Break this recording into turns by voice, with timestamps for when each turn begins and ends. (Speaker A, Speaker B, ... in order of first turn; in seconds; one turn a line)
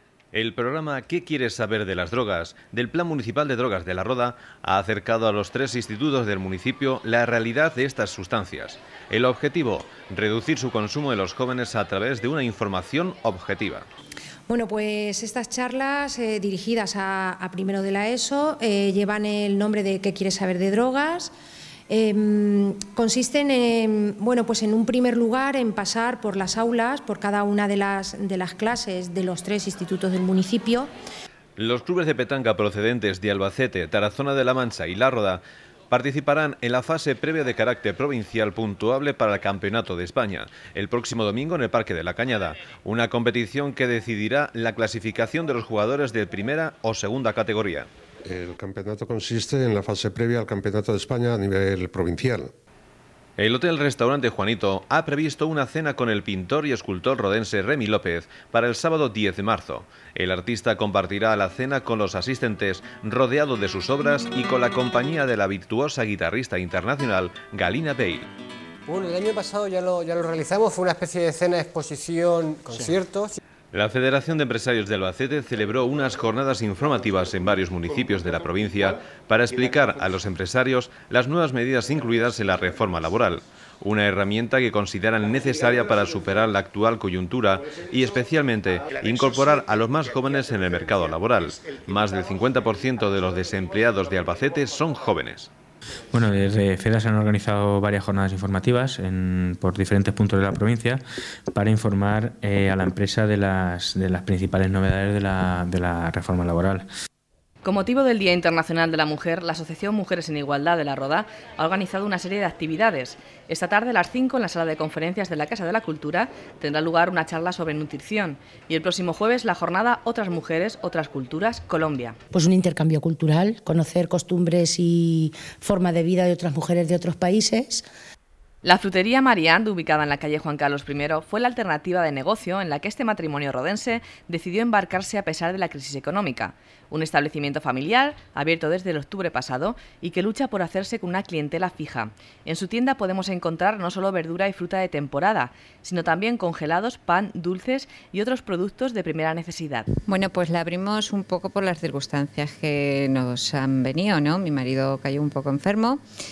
Speaker A: 0.3-13.9
Speaker B: 14.5-21.3
Speaker B: 21.9-30.9
Speaker A: 31.6-47.9
Speaker C: 48.2-52.5
Speaker A: 53.4-68.3
Speaker D: 68.9-73.4
Speaker A: 73.7-95.5
Speaker E: 96.1-101.0
Speaker E: 101.5-106.9
Speaker F: 107.6-122.2
Speaker G: 122.3-127.8
Speaker F: 128.6-149.9
Speaker H: 150.1-156.0